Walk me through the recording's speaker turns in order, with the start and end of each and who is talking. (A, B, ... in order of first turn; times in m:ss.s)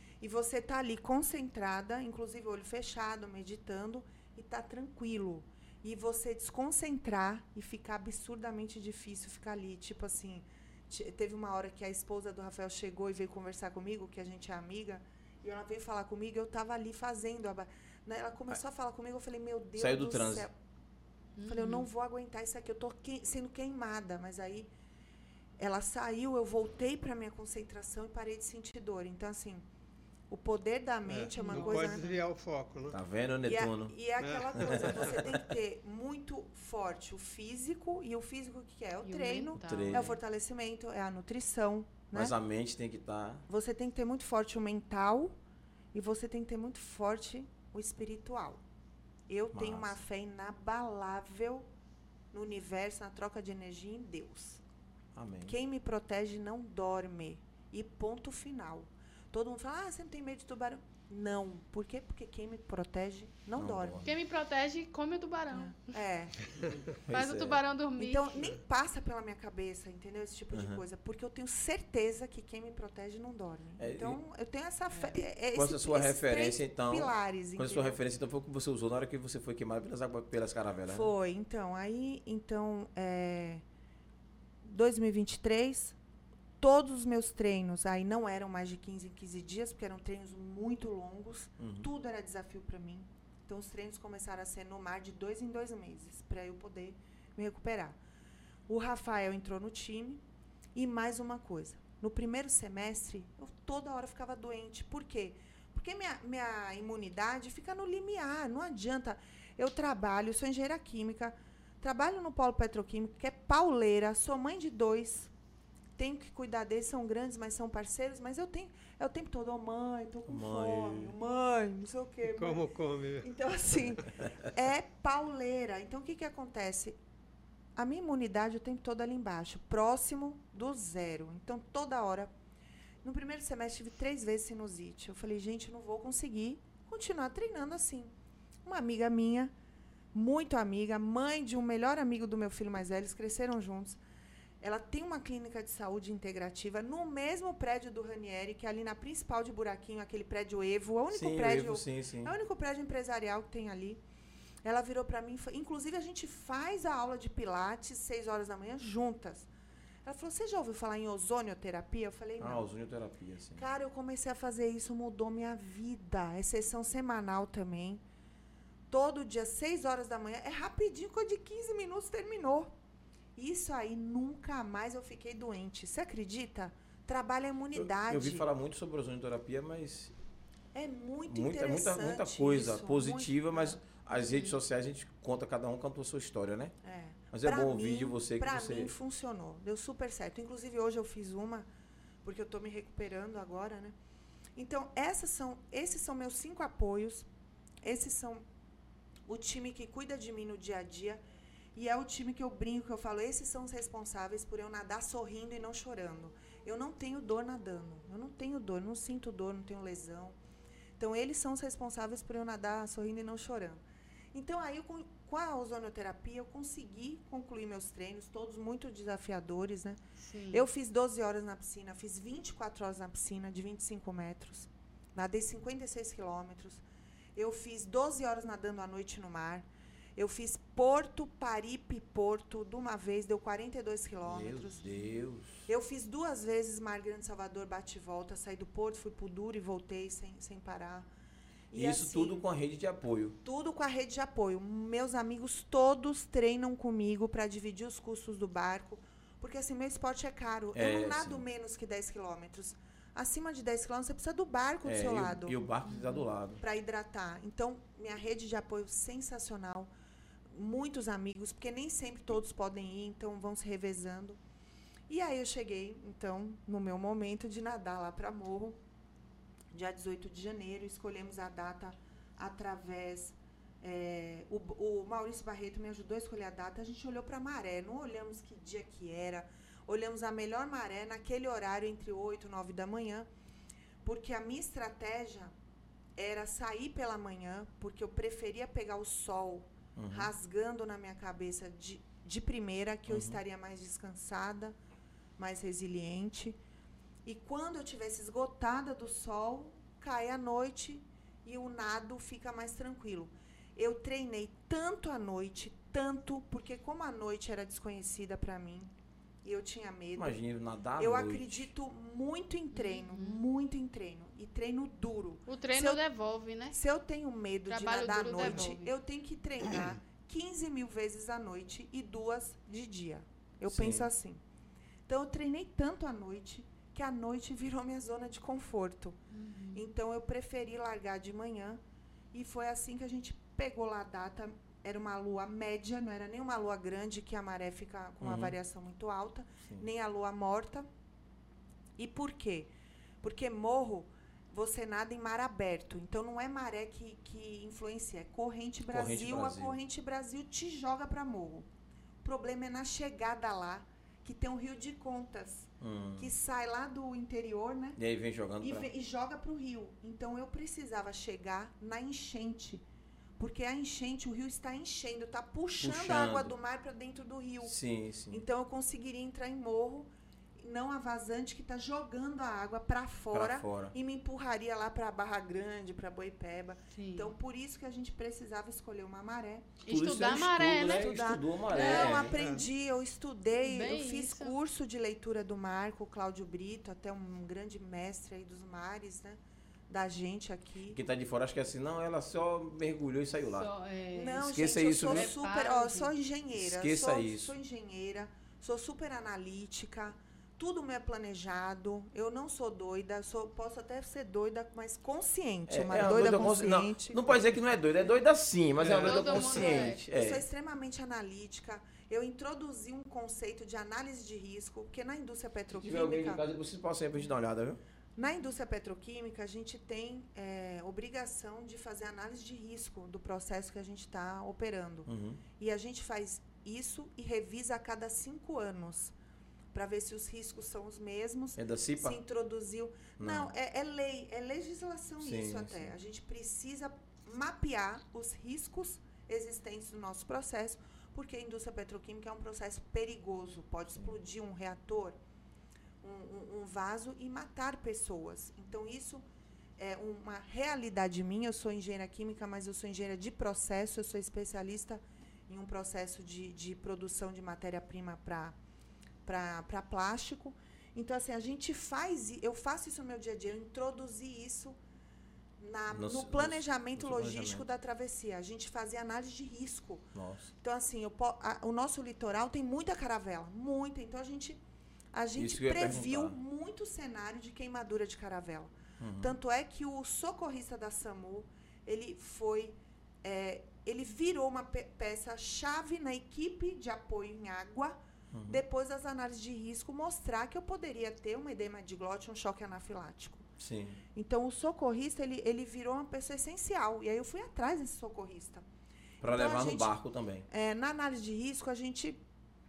0:00.2-0:20.5 A
0:19.8-0:20.5 B
0:21.4-0:21.9 C
0:21.4-0:24.7 A
0:25.6-0:29.6 A
0:30.3-0:32.1 A
0:31.1-0:33.0 D
0:31.4-0:32.2 C
0:32.9-0:34.0 B
0:33.4-0:42.3 A
0:34.2-0:35.2 D
0:34.6-0:35.4 B
0:39.0-0:40.2 C
0:39.6-0:40.1 B
0:42.1-0:43.5 B
0:43.5-0:45.4 A
0:45.9-0:48.6 A
0:49.3-0:51.7 A
0:49.5-0:50.0 B
0:52.3-0:54.6 A
0:55.1-0:55.6 B
0:55.4-1:04.1 A
1:03.6-1:04.0 B
1:04.0-1:05.9 C
1:05.5-1:06.5 A
1:07.1-1:07.6 B
1:07.1-1:08.4 C
1:08.0-1:18.0 A
1:10.5-1:10.8 B
1:13.8-1:14.2 B
1:15.5-1:21.1 B
1:20.9-1:23.6 A
1:24.6-1:26.0 A
1:26.6-1:38.0 A
1:31.6-1:31.9 B
1:38.7-1:40.2 A
1:40.7-1:55.3 A
1:56.0-2:02.7 A
2:00.3-2:01.2 B
2:02.2-2:04.0 D
2:03.2-2:07.0 A
2:07.8-2:12.3 A
2:13.0-2:18.1 A
2:18.6-2:19.5 A
2:20.1-2:24.0 A
2:24.6-2:34.0 A
2:31.1-2:32.4 B
2:34.6-2:39.5 A
2:40.0-2:42.6 A
2:42.4-2:43.6 B
2:43.6-2:48.0 A
2:48.9-2:52.7 A
2:53.4-2:58.4 A
2:58.0-3:00.1 B
3:00.7-3:03.8 A
3:01.2-3:06.7 B
3:04.2-3:04.6 C
3:06.8-3:11.7 A
3:07.3-3:08.9 B
3:12.2-3:13.9 A
3:14.6-3:17.3 A
3:17.8-3:18.4 A
3:19.3-3:21.2 A
3:21.7-3:30.4 A
3:31.0-3:33.8 A
3:34.3-3:40.0 A
3:40.2-3:40.6 C
3:40.5-3:46.8 A
3:47.4-3:54.8 A
3:54.2-3:55.7 B
3:55.7-4:01.1 A
4:01.7-4:02.4 A
4:01.7-4:03.4 B
4:03.4-4:15.5 A
4:10.7-4:11.4 B
4:14.8-4:16.6 B
4:15.9-4:16.2 C
4:16.6-4:19.9 A
4:20.5-4:24.4 A
4:25.1-4:28.8 A
4:29.7-4:43.3 A
4:44.0-4:45.5 A
4:46.2-4:54.8 A
4:50.0-4:50.3 B
4:53.1-4:53.4 B
4:55.4-4:56.6 A
4:57.2-5:08.9 A
5:09.4-5:10.4 A
5:10.1-5:11.7 B
5:11.0-5:16.0 A
5:12.7-5:13.4 C
5:15.4-5:16.8 C
5:16.7-5:24.4 A
5:17.7-5:18.9 C
5:18.4-5:18.7 D
5:23.7-5:24.1 B
5:25.1-5:29.2 A
5:29.3-5:29.8 C
5:29.7-5:31.8 A
5:32.3-5:40.9 A
5:38.2-5:38.6 B
5:42.0-5:42.7 A
5:43.2-5:51.7 A
5:48.9-5:49.8 B
5:52.2-5:58.0 A
5:55.8-5:56.3 B
5:58.0-5:58.9 B
5:58.6-6:02.8 A
6:03.4-6:07.7 A
6:05.8-6:06.5 B
6:07.6-6:08.4 B
6:08.3-6:19.8 A
6:13.3-6:13.9 B
6:16.9-6:17.3 C
6:19.8-6:21.2 C
6:19.9-6:22.4 B
6:20.8-6:31.0 A
6:21.7-6:22.3 C
6:22.3-6:22.7 D
6:23.6-6:24.6 C
6:30.9-6:33.7 B
6:33.5-6:36.1 C
6:34.1-6:47.4 A
6:34.5-6:35.3 B
6:36.5-6:37.6 B
6:45.7-6:50.4 B
6:48.8-6:49.4 D
6:49.0-6:50.0 C
6:49.4-6:56.4 A
6:55.7-6:57.8 B
6:58.2-7:09.1 A
7:05.1-7:05.4 B
7:09.7-7:25.2 A
7:11.6-7:12.2 B
7:13.2-7:13.5 B
7:15.2-7:16.0 B
7:26.0-7:29.2 A
7:29.8-7:38.6 A
7:39.2-7:44.8 A
7:45.6-7:54.6 A
7:45.9-7:47.6 B
7:50.1-7:50.5 B
7:55.1-8:13.5 A
7:55.3-7:56.4 B
7:59.0-7:59.4 B
8:08.3-8:08.6 B
8:13.6-8:14.0 B
8:14.1-8:18.6 A
8:19.2-8:20.5 B
8:19.2-8:19.9 A
8:20.5-8:22.2 A